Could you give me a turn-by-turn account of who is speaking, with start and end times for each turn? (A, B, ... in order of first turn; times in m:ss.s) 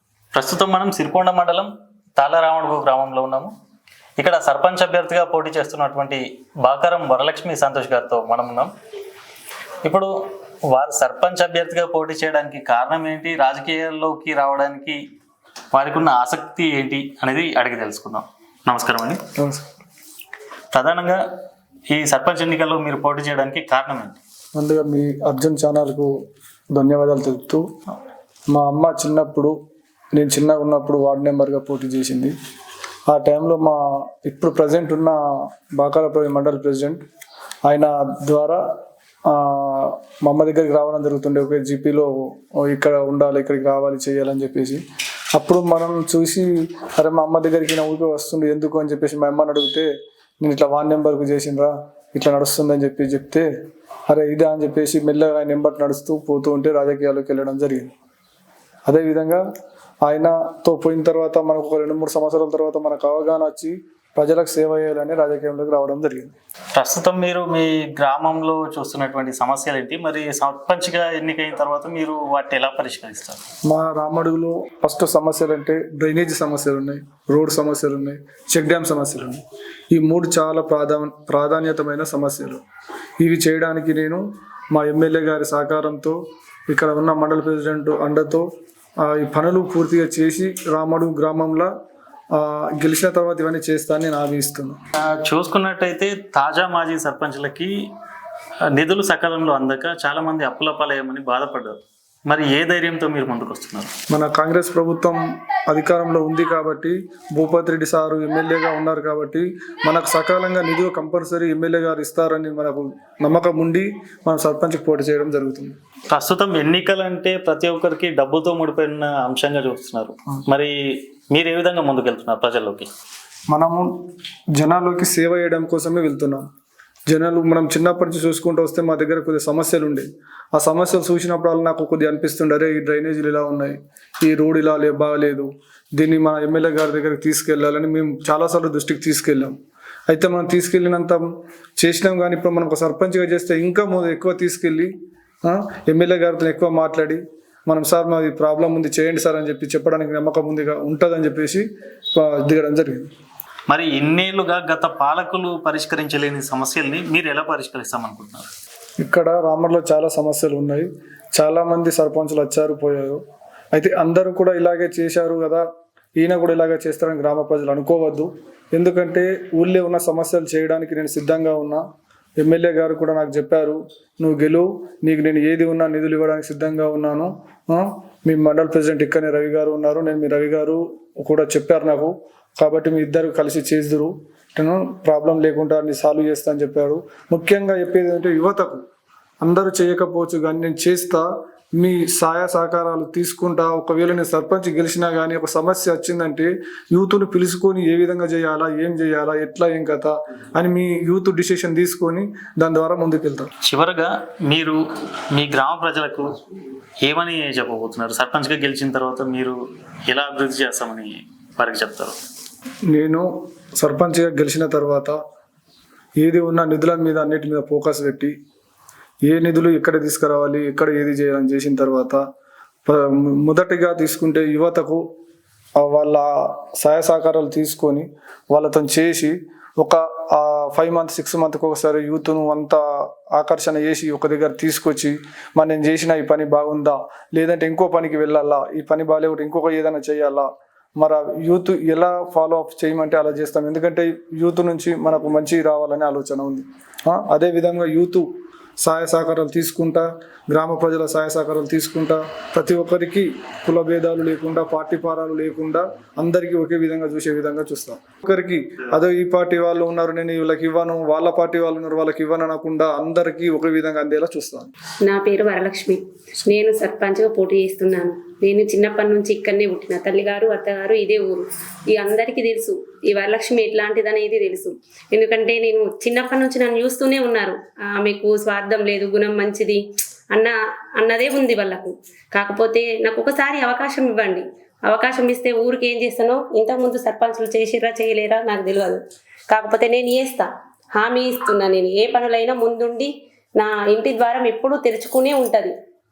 0:00.3-0:03.5 A
0:04.2-0:08.7 A
0:09.8-0:10.1 A
0:10.7-0:15.0 A
0:15.7-0:19.2 A
0:19.4-0:19.6 B
0:20.7-0:21.2 A
0:21.9-0:24.2 A
0:24.6-0:26.1 B
0:26.7-0:27.6 B
0:28.5-0:29.5 B
0:30.1-0:32.3 B
0:33.1-0:37.0 B
0:37.6-0:38.6 B
0:39.3-0:44.8 B
0:45.3-0:53.5 B
0:54.1-0:57.9 B
0:58.8-0:59.4 B
1:00.0-1:06.3 B
1:06.7-1:13.4 A
1:13.7-1:22.6 B
1:23.2-1:26.2 B
1:26.7-1:28.4 B
1:29.0-1:31.7 B
1:32.3-1:34.8 B
1:35.1-1:37.8 A
1:38.8-1:43.9 A
1:44.1-1:55.7 B
1:56.1-2:02.9 A
2:03.5-2:03.9 B
2:04.6-2:06.4 B
2:07.1-2:19.5 B
2:20.1-2:24.9 B
2:25.4-2:33.1 B
2:33.7-2:38.5 A
2:39.0-2:43.2 B
2:43.7-2:45.6 B
2:46.2-2:51.8 B
2:52.4-3:08.8 B
3:09.4-3:23.5 B
3:23.6-3:26.4 A
3:27.0-3:32.2 A
3:32.9-3:35.2 B
3:36.2-3:38.3 B
3:39.2-3:42.2 B
3:42.8-3:45.0 B
3:45.8-4:24.7 B
4:25.0-4:55.7 C